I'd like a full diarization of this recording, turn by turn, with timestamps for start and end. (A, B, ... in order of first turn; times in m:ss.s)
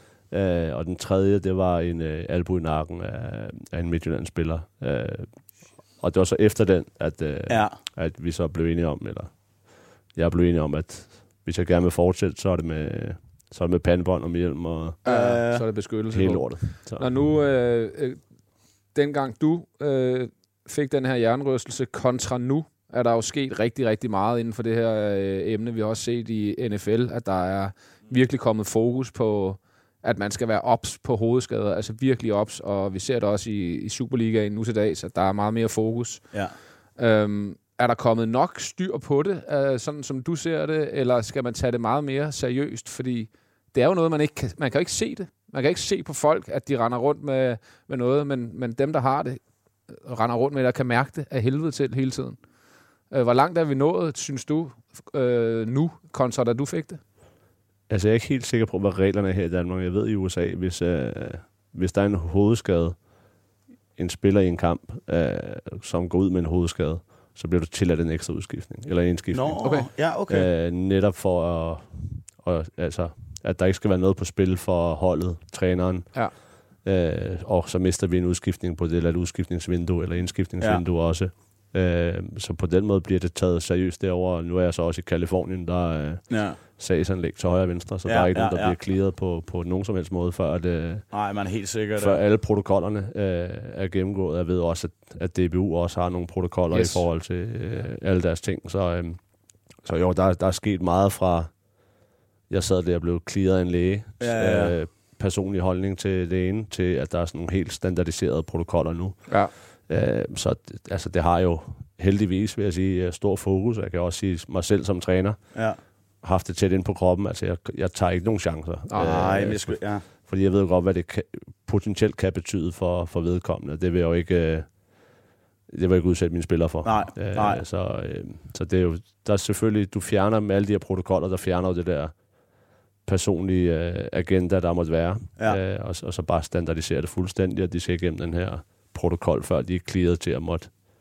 0:00.3-0:05.3 A
0:06.0-0:09.3 A
0:07.5-0:07.8 B
0:10.2-0:15.0 A
0:15.0-0:15.7 B
0:15.0-0:18.2 C
0:16.1-0:17.1 A
0:18.9-0:36.3 C
0:37.0-0:49.4 C
0:50.0-0:52.4 C
0:53.1-0:57.0 C
0:57.9-1:03.0 A
1:04.0-1:09.6 A
1:09.3-1:10.5 B
1:09.6-1:09.9 C
1:10.3-1:16.2 A
1:16.8-1:31.1 A
1:26.3-1:26.6 B
1:28.1-1:28.8 B
1:31.1-1:32.2 B
1:32.0-1:39.2 A
1:36.7-1:37.0 C
1:39.8-1:41.5 A
1:42.5-1:49.3 A
1:44.2-1:44.8 B
1:49.9-1:55.4 A
1:56.2-2:04.7 A
1:58.9-1:59.2 C
1:59.0-2:00.0 B
2:05.7-2:12.1 A
2:06.8-2:07.6 B
2:13.1-2:20.7 A